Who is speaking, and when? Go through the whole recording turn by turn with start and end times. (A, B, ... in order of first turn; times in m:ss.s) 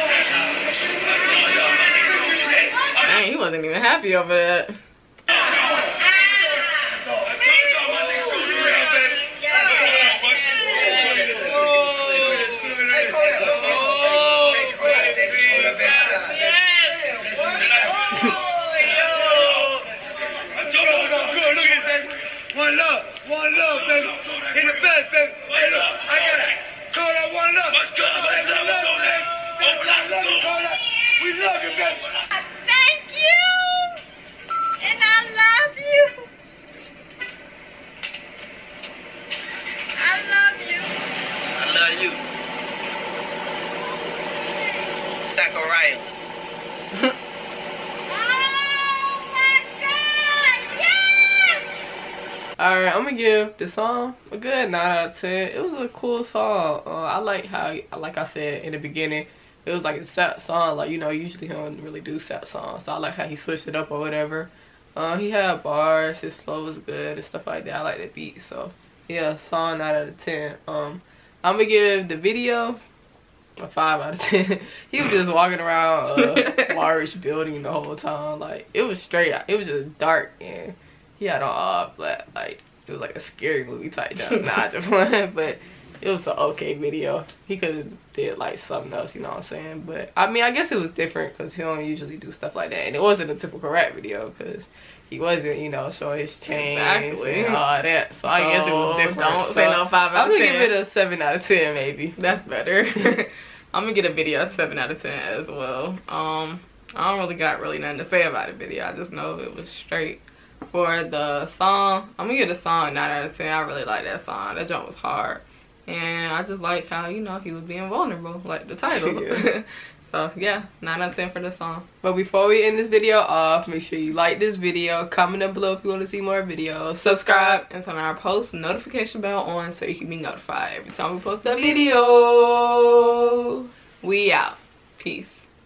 0:03.0-0:04.8 A
0:07.8-0:09.0 B
0:11.0-0:11.4 B
0:12.2-0:16.0 B
0:20.6-0:32.1 B
0:28.4-0:29.0 C
0:32.4-0:34.0 D
0:34.8-0:36.2 D
0:40.0-0:40.8 D
0:41.6-0:42.2 C
0:45.2-0:46.0 C
0:49.8-0:50.2 D
0:52.6-1:12.8 E
1:13.6-1:42.1 E
1:16.2-1:16.6 A
1:36.5-1:37.6 A
1:38.2-1:40.8 A
1:42.2-2:01.8 A
1:58.9-1:59.4 E
2:02.0-2:07.6 E
2:07.0-2:15.4 A